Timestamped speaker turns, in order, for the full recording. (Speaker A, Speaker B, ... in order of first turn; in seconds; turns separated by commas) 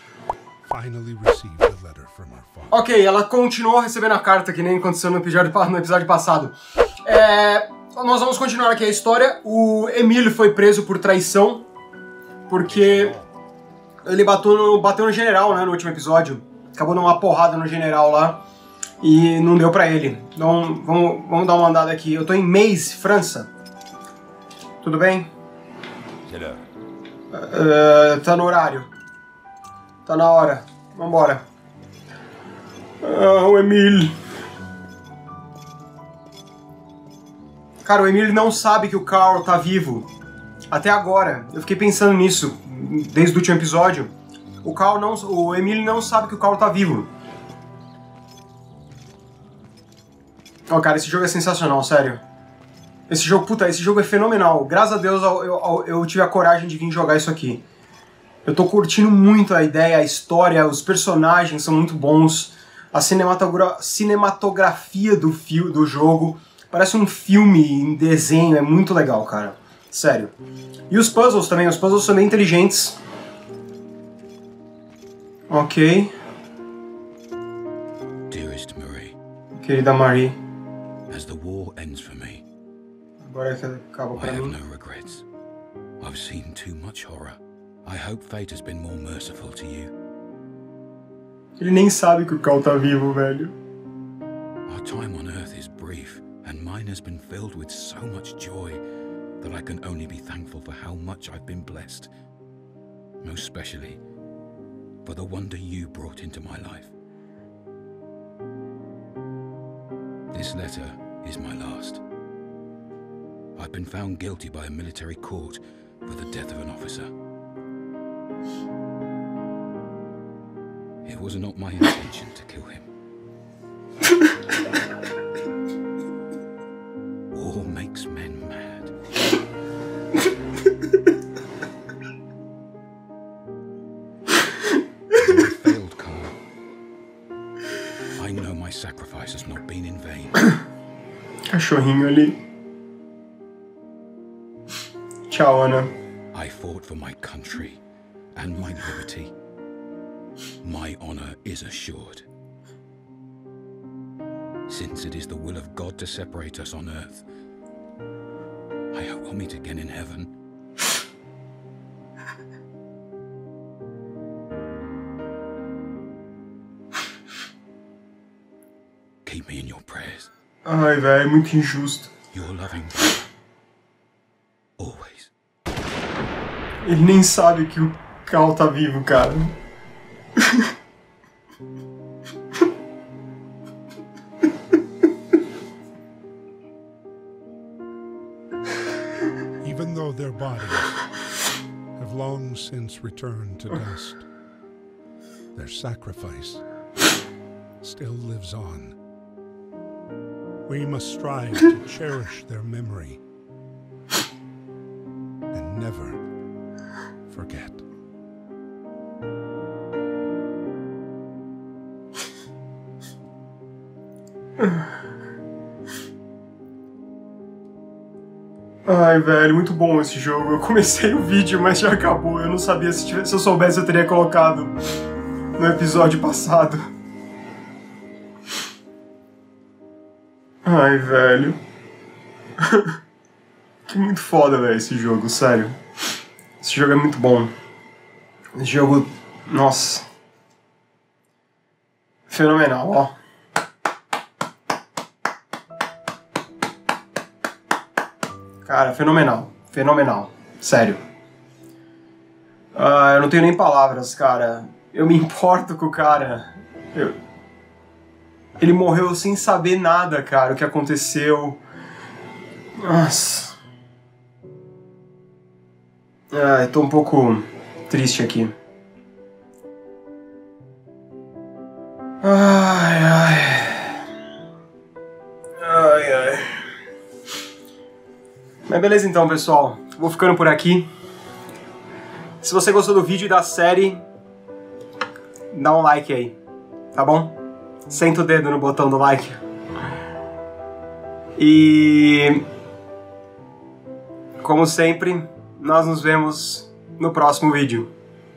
Speaker A: 0.7-2.8, Speaker B: 2.7-11.6, Speaker B: 12.5-13.1, Speaker C: 12.7-13.3, Speaker B: 14.1-18.4, Speaker B: 19.0-23.5, Speaker B: 24.8-25.3, Speaker C: 26.3-26.6, Speaker B: 27.3-28.9, Speaker B: 30.1-31.4, Speaker B: 33.0-34.1, Speaker B: 37.8-40.1, Speaker B: 40.7-44.1, Speaker B: 44.6-47.1, Speaker B: 50.7-52.2, Speaker B: 53.1-57.6, Speaker B: 58.4-70.3, Speaker B: 70.9-73.0, Speaker B: 75.5-76.1, Speaker C: 78.3-79.2, Speaker B: 79.6-80.4, Speaker C: 81.1-82.4, Speaker B: 83.2-84.5, Speaker C: 84.2-85.2, Speaker C: 86.0-89.9, Speaker B: 91.6-93.5, Speaker C: 94.7-98.8, Speaker C: 99.4-102.1, Speaker C: 103.2-104.0, Speaker C: 105.0-106.9, Speaker C: 110.3-112.0, Speaker C: 113.6-117.1, Speaker C: 121.0-122.9, Speaker C: 127.3-128.9, Speaker C: 135.2-136.3, Speaker C: 138.2-140.6, Speaker B: 141.5-142.3, Speaker B: 145.3-145.9, Speaker C: 146.3-147.8, Speaker C: 148.3-149.3, Speaker C: 150.6-152.2, Speaker C: 154.7-157.2, Speaker C: 158.9-160.3, Speaker C: 169.2-170.3, Speaker B: 170.6-172.1, Speaker C: 172.3-173.1, Speaker C: 174.8-175.3, Speaker B: 176.8-179.5, Speaker A: 189.6-191.1, Speaker A: 191.9-194.3, Speaker A: 195.5-196.6, Speaker A: 197.8-199.0, Speaker A: 200.7-203.2, Speaker A: 205.5-206.2, Speaker A: 207.3-207.8, Speaker B: 214.6-214.8, Speaker B: 218.8-224.7, Speaker B: 225.6-226.8, Speaker B: 230.6-231.6, Speaker B: 232.6-232.9, Speaker B: 233.9-235.7, Speaker B: 236.6-237.5, Speaker B: 238.6-240.0, Speaker B: 242.3-243.1, Speaker B: 248.6-251.0, Speaker B: 252.7-257.1, Speaker B: 258.6-261.6, Speaker B: 262.8-263.6, Speaker B: 266.3-268.5, Speaker B: 272.2-273.9, Speaker B: 275.6-276.5, Speaker B: 278.7-280.9, Speaker B: 282.4-284.0, Speaker B: 285.5-286.3, Speaker B: 286.9-287.4, Speaker B: 287.9-289.4, Speaker B: 291.4-292.4, Speaker B: 294.4-297.9